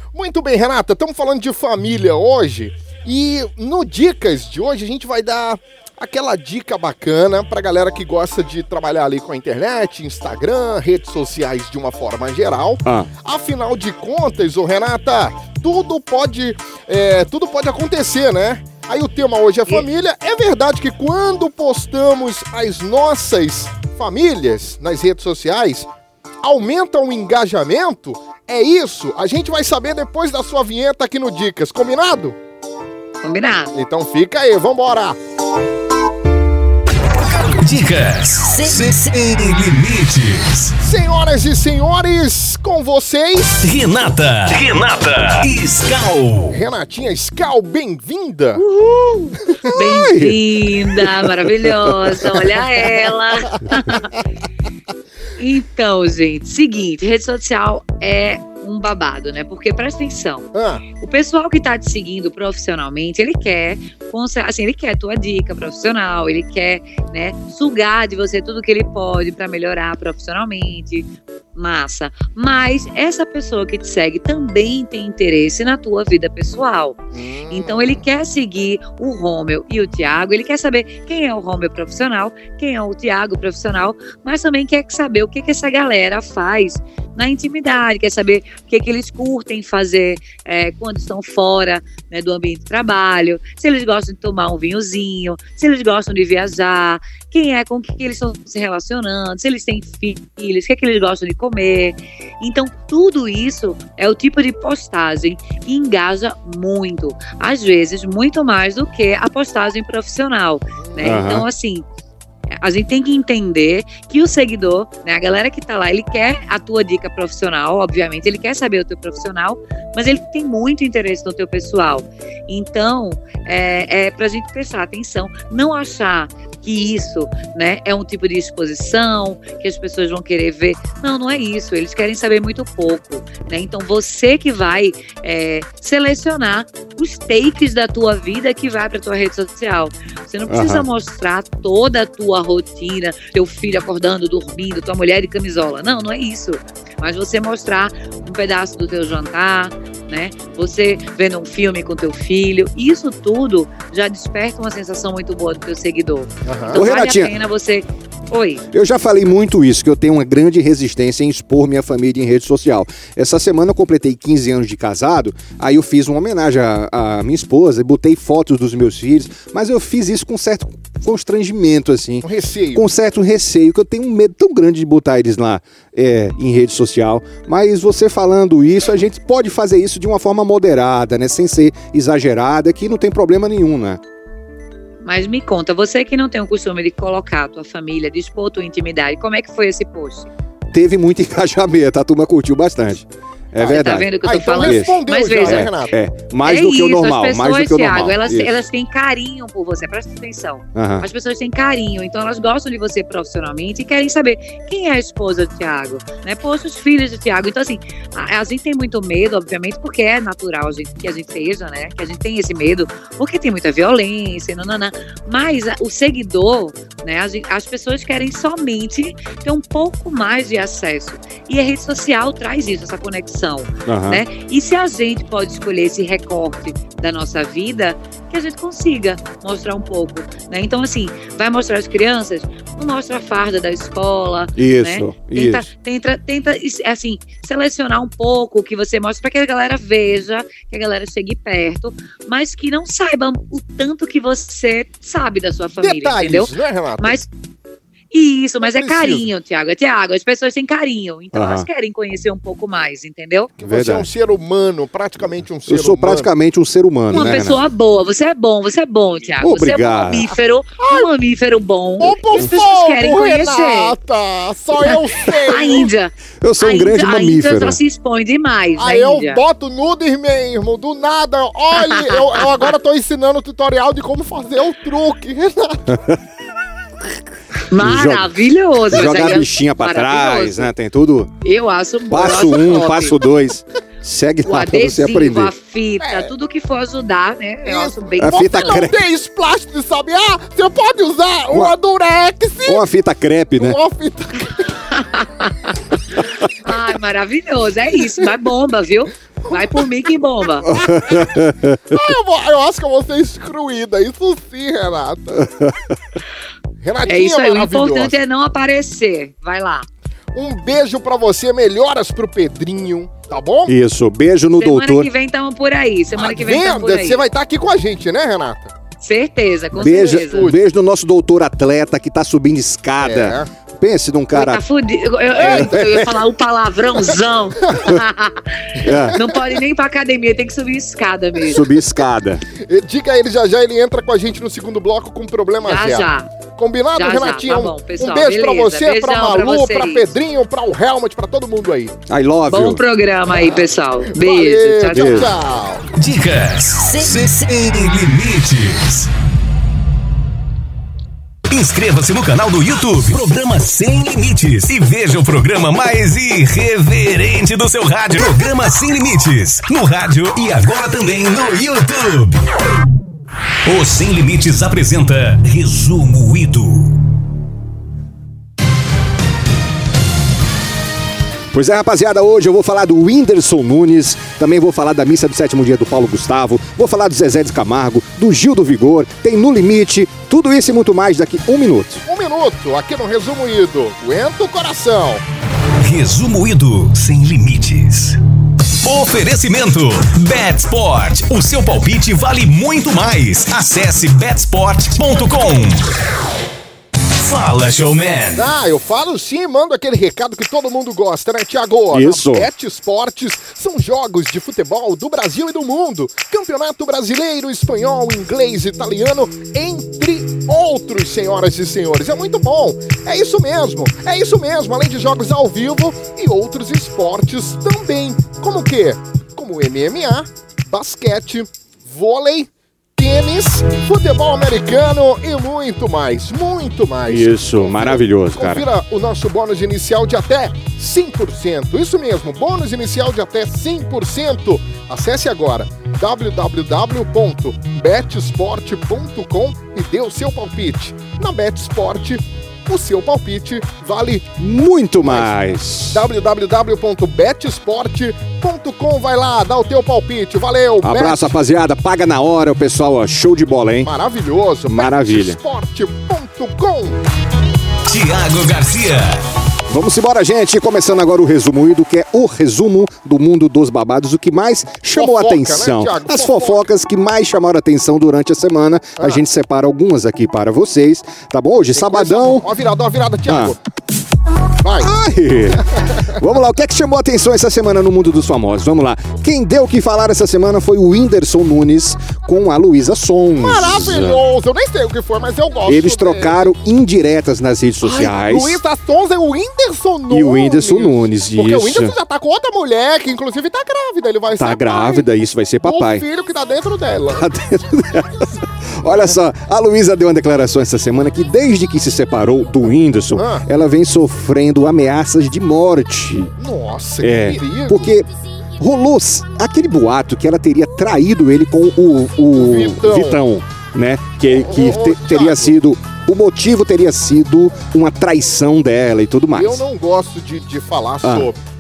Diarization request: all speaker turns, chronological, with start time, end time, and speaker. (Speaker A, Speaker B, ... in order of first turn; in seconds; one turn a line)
Speaker A: 0.1-25.9
Speaker B: 12.8-13.1
Speaker A: 26.4-32.4
Speaker C: 33.2-33.7
Speaker A: 33.7-35.2
Speaker D: 37.6-40.7
Speaker A: 40.8-43.7
Speaker D: 43.6-46.6
Speaker A: 46.5-48.6
Speaker C: 48.7-54.1
Speaker B: 49.7-50.4
Speaker B: 51.0-52.2
Speaker C: 55.4-77.0
Speaker A: 60.5-60.8
Speaker A: 77.1-78.0
Speaker C: 77.5-111.8
Speaker A: 110.8-111.2
Speaker B: 111.0-111.5
Speaker C: 112.6-158.6
Speaker B: 140.5-140.9
Speaker A: 156.5-156.8
Speaker B: 156.7-157.3
Speaker B: 158.7-184.0
Speaker A: 172.2-172.8
Speaker C: 185.0-190.3
Speaker B: 190.7-198.6
Speaker C: 193.6-195.7
Speaker A: 194.2-195.9
Speaker C: 196.4-247.3
Speaker B: 200.8-201.1
Speaker B: 223.9-224.2
Speaker B: 234.6-235.7
Speaker A: 245.8-247.2
Speaker C: 248.1-253.5
Speaker A: 248.6-249.3
Speaker B: 251.3-251.7
Speaker A: 253.6-256.3
Speaker B: 253.6-254.1
Speaker B: 255.7-257.6
Speaker C: 257.1-263.9
Speaker B: 259.4-260.3
Speaker A: 260.8-261.1
Speaker A: 262.0-265.9
Speaker C: 264.9-269.4
Speaker B: 266.4-267.8
Speaker A: 268.8-275.9
Speaker C: 271.8-272.6
Speaker B: 275.9-276.2
Speaker C: 277.7-280.7
Speaker B: 277.8-278.3
Speaker B: 278.9-281.3
Speaker C: 281.4-283.2
Speaker B: 282.1-285.5
Speaker C: 284.4-288.9
Speaker A: 286.0-286.3
Speaker A: 287.7-292.8
Speaker B: 288.2-289.0
Speaker B: 292.6-293.8
Speaker A: 293.6-294.7
Speaker C: 294.9-295.7
Speaker C: 296.6-300.7
Speaker A: 299.5-299.8
Speaker B: 300.7-302.0
Speaker A: 300.8-301.3
Speaker A: 301.9-305.5
Speaker B: 305.4-305.8
Speaker A: 306.8-308.1
Speaker C: 307.1-309.9
Speaker A: 310.3-313.7
Speaker B: 313.7-315.1
Speaker C: 314.6-317.2
Speaker A: 316.2-318.7
Speaker C: 319.0-320.5
Speaker B: 319.8-324.6
Speaker A: 319.9-320.6
Speaker A: 323.0-323.5
Speaker C: 324.3-331.6
Speaker B: 325.4-326.1
Speaker A: 325.4-325.8
Speaker A: 327.6-327.9
Speaker B: 328.8-329.2
Speaker B: 331.4-332.4
Speaker A: 332.6-342.0
Speaker C: 335.6-336.3
Speaker C: 337.0-340.1
Speaker B: 342.1-342.8
Speaker C: 342.5-345.3
Speaker A: 343.3-345.9
Speaker B: 344.9-345.3
Speaker D: 346.0-349.1
Speaker D: 351.5-362.4
Speaker D: 363.6-367.0
Speaker B: 371.5-382.0
Speaker A: 382.1-385.2
Speaker D: 385.8-388.2
Speaker D: 388.8-395.9
Speaker D: 397.2-398.5
Speaker A: 398.4-444.3
Speaker B: 401.9-402.5
Speaker B: 427.1-428.6
Speaker B: 444.4-446.1
Speaker A: 445.0-445.3
Speaker A: 445.9-451.2
Speaker B: 450.8-453.9
Speaker A: 453.8-457.0
Speaker B: 454.7-455.4
Speaker D: 457.9-459.2
Speaker B: 459.7-472.5
Speaker A: 464.9-466.7
Speaker A: 471.7-473.6
Speaker B: 473.3-473.6
Speaker A: 474.6-474.9
Speaker B: 474.8-484.2
Speaker A: 475.6-476.1
Speaker A: 483.4-486.5
Speaker B: 485.7-488.6
Speaker A: 487.8-495.1
Speaker B: 490.1-491.9
Speaker B: 494.4-496.1
Speaker A: 495.6-497.3
Speaker B: 497.1-506.3
Speaker A: 503.1-503.4
Speaker A: 506.4-507.9
Speaker B: 507.0-508.1
Speaker B: 508.6-519.6
Speaker A: 512.3-513.2
Speaker A: 514.3-515.6
Speaker A: 519.4-521.4
Speaker B: 521.0-521.3